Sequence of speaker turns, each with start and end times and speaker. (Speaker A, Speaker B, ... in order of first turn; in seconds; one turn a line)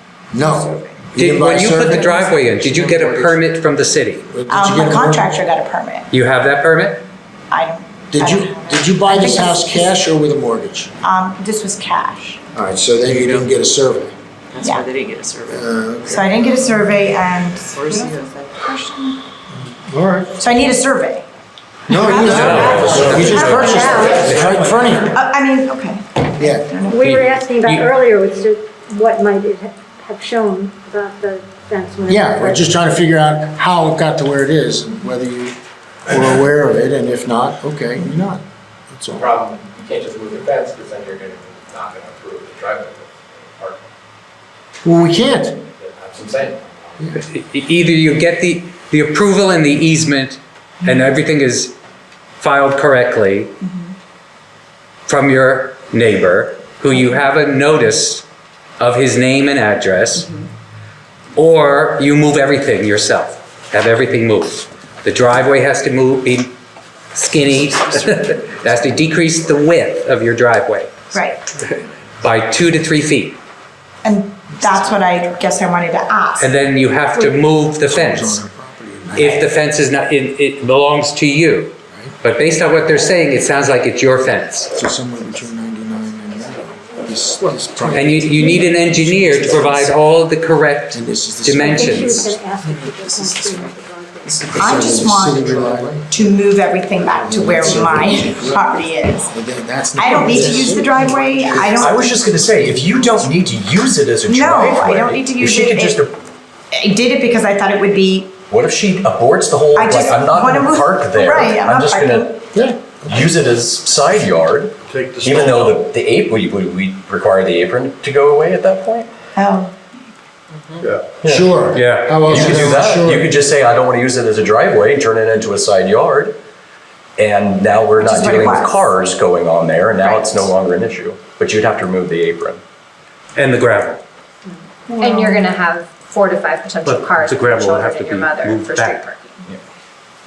Speaker A: 0.3-3.4
Speaker B: 0.4-1.0
Speaker C: 1.1-4.3
Speaker A: 4.3-5.3
Speaker B: 4.5-6.1
Speaker C: 6.1-7.0
Speaker B: 7.5-9.9
Speaker A: 8.1-10.9
Speaker B: 11.0-12.4
Speaker A: 12.5-14.2
Speaker D: 13.1-13.5
Speaker D: 14.5-15.7
Speaker B: 14.6-14.9
Speaker A: 15.4-16.3
Speaker B: 16.1-19.2
Speaker D: 17.8-18.2
Speaker A: 19.5-20.4
Speaker B: 20.4-21.2
Speaker A: 21.9-25.2
Speaker B: 22.1-24.1
Speaker C: 22.2-24.6
Speaker E: 22.9-23.2
Speaker F: 22.9-24.3
Speaker E: 23.9-24.8
Speaker B: 24.9-27.3
Speaker A: 26.4-26.7
Speaker F: 26.9-32.7
Speaker C: 27.0-27.9
Speaker A: 32.1-39.3
Speaker E: 39.1-43.9
Speaker A: 44.8-45.6
Speaker E: 45.8-47.1
Speaker C: 47.1-51.8
Speaker B: 50.8-51.1
Speaker C: 52.4-53.5
Speaker B: 53.6-53.9
Speaker C: 55.1-58.2
Speaker B: 56.9-57.2
Speaker C: 58.8-60.3
Speaker C: 61.4-66.5
Speaker C: 67.1-70.9
Speaker B: 71.1-71.4
Speaker C: 71.6-73.4
Speaker B: 74.0-76.5
Speaker C: 76.4-78.4
Speaker A: 77.8-79.5
Speaker C: 79.2-84.7
Speaker A: 84.7-90.0
Speaker C: 87.9-92.2
Speaker A: 90.9-92.4
Speaker F: 91.6-94.8
Speaker D: 92.6-95.1
Speaker A: 94.5-96.1
Speaker B: 94.6-99.3
Speaker A: 97.2-102.0
Speaker B: 100.0-102.2
Speaker G: 101.7-106.1
Speaker B: 104.2-106.1
Speaker B: 106.7-108.4
Speaker G: 108.5-112.4
Speaker B: 109.7-112.4
Speaker A: 112.5-113.3
Speaker G: 113.0-119.1
Speaker E: 114.9-115.8
Speaker B: 119.4-120.1
Speaker E: 120.8-121.1
Speaker G: 121.2-121.6
Speaker A: 121.2-123.3
Speaker C: 121.7-122.2
Speaker G: 122.2-126.4
Speaker G: 127.2-132.6
Speaker B: 128.0-128.8
Speaker B: 130.0-130.5
Speaker C: 133.4-134.0
Speaker F: 134.9-135.4
Speaker H: 135.0-139.4
Speaker C: 136.8-139.0